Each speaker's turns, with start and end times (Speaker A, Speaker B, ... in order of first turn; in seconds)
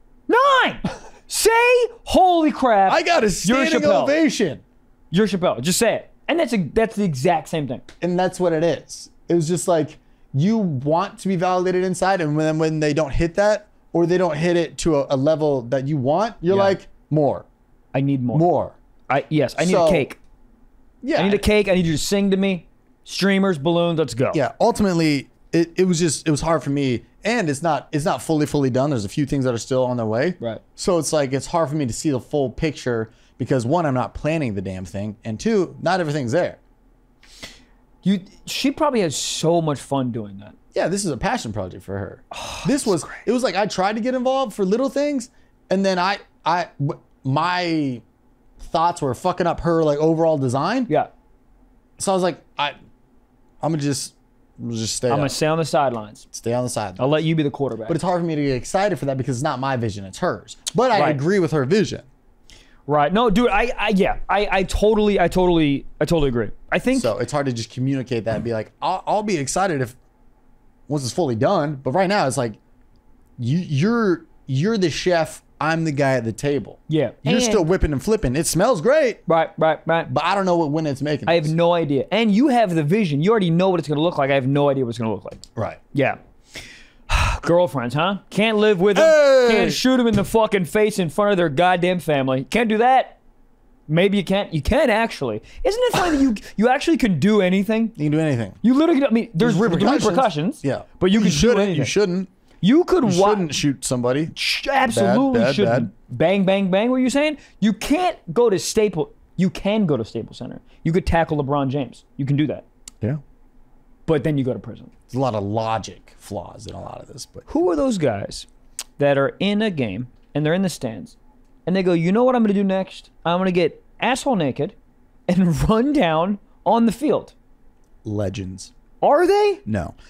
Speaker A: 0.3-4.2, 5.1-7.8, 16.5-16.8, 17.9-18.5, 19.1-20.2, 21.1-24.4, 38.0-40.5, 42.3-43.2, 55.1-56.2, 57.0-58.0, 60.9-61.2, 62.9-67.1, 76.9-77.7, 79.3-80.1, 81.2-93.2, 93.9-98.0, 98.6-101.9, 102.6-103.5, 104.3-112.6, 114.1-114.9, 117.5-118.5, 119.0-124.7, 125.3-127.3, 129.0-129.6
Speaker B: 2.9-4.6, 8.0-17.4, 18.3-18.8, 19.6-20.1, 21.0-21.4, 24.3-36.6, 40.7-48.0, 48.6-50.9, 52.0-52.8, 53.6-55.3, 56.3-57.2, 57.9-62.0, 66.9-70.0, 70.9-72.6, 73.4-79.2, 80.1-81.5, 88.9-89.8, 98.0-98.6, 99.4-102.3, 103.0-104.3, 104.9-105.9, 115.1-117.5, 128.0-128.7, 129.7-129.9